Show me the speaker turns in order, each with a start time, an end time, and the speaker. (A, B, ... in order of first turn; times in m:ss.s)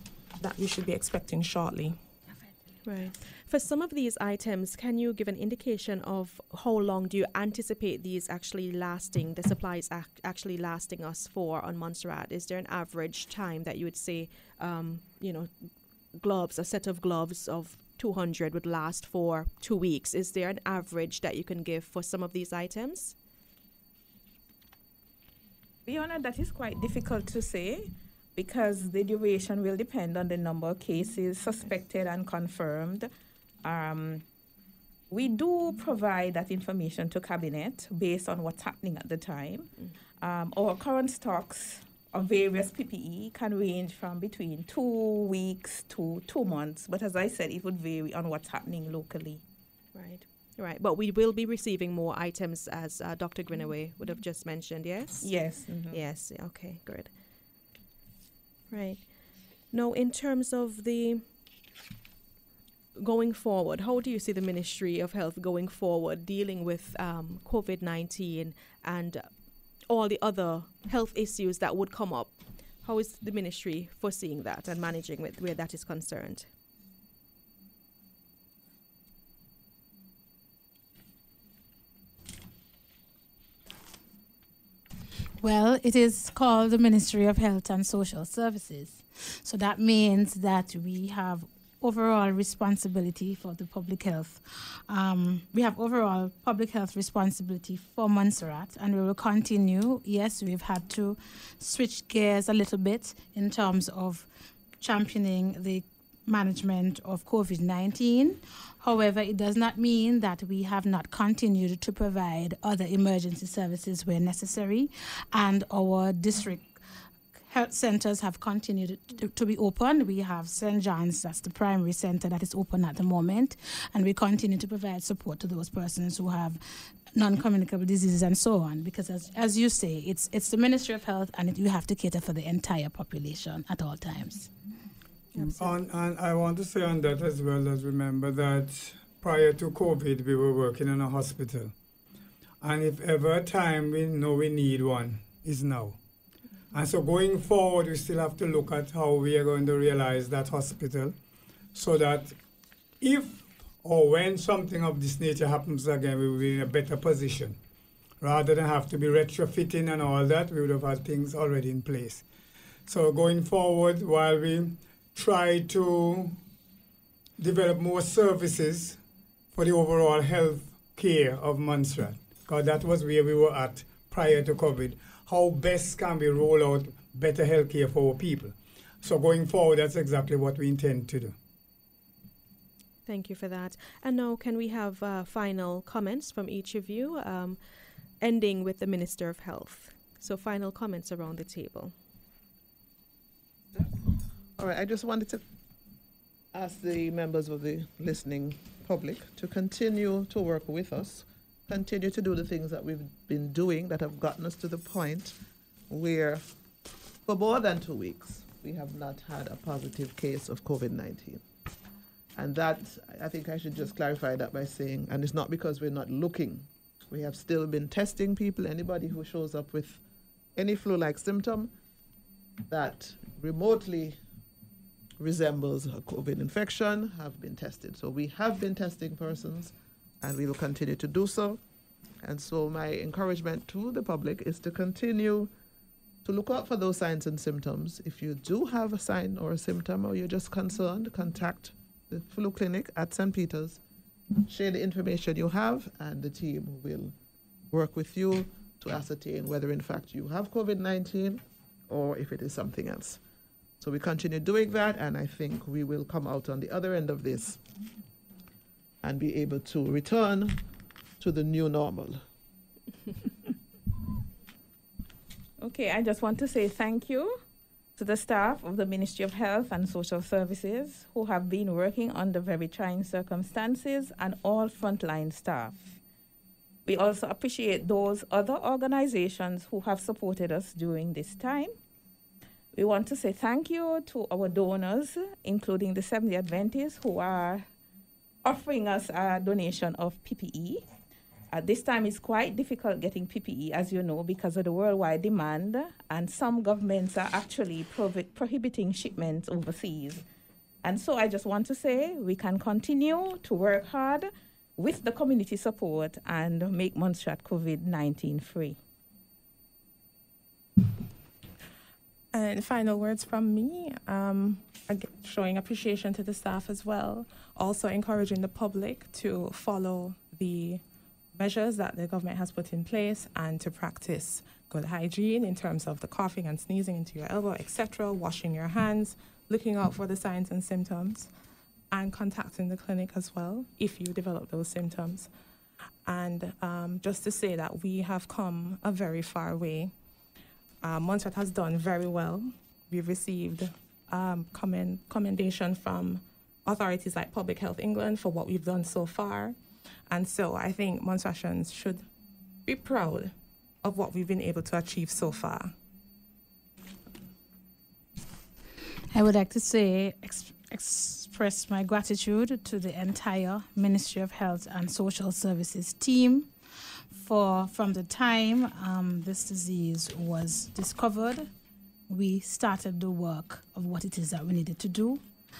0:00.4-0:02.0 A
0:02.8-0:15.5 B
0:16.2-0:23.2 B
0:25.8-0:33.1 C
0:33.6-0:34.2 C
0:35.1-0:39.7 C
0:40.2-0:49.4 C
0:49.9-0:55.3 B
0:55.2-0:56.0 C
0:55.9-0:57.1 B
0:58.7-0:59.0 B
0:59.7-1:01.2 B
1:03.0-1:09.3 B
1:09.9-1:16.5 B
1:25.4-1:56.8 D
1:57.4-2:06.6 D
2:07.2-2:14.5 D
2:15.4-2:15.7 B
2:15.4-2:21.7 E
2:22.6-2:26.0 E
2:26.7-2:31.2 E
2:31.7-2:32.4 E
2:33.0-2:37.6 E
2:38.2-2:42.2 E
2:42.9-2:46.4 E
2:47.4-2:49.0 E
2:49.5-3:01.4 E
3:03.1-3:07.6 B
3:08.2-3:12.0 B
3:14.6-3:15.4 F
3:16.5-3:25.4 F
3:25.9-3:26.4 F
3:27.3-3:31.4 F
3:32.4-3:40.0 F
3:40.6-3:41.7 F
3:42.7-3:44.2 F
3:45.2-3:51.6 F
3:52.2-3:55.5 F
3:56.2-4:03.8 F
4:04.4-4:07.1 F
4:07.7-4:13.2 F
4:13.8-4:17.6 F
4:19.0-4:20.6 F
4:21.2-4:22.2 F
4:25.6-4:27.4 C
4:28.0-4:36.0 C
4:36.9-4:41.7 C
4:42.7-4:47.7 C
4:48.4-4:50.8 C
4:51.5-5:00.2 C
5:00.8-5:08.8 C
5:12.3-5:20.8 A
5:21.3-5:31.3 A
5:31.9-5:35.3 A
5:36.0-5:39.9 A
5:40.8-5:49.6 A
5:50.1-5:52.1 A
5:52.7-5:55.7 A
5:59.1-6:06.5 D
6:07.1-6:11.5 D
6:12.1-6:15.2 D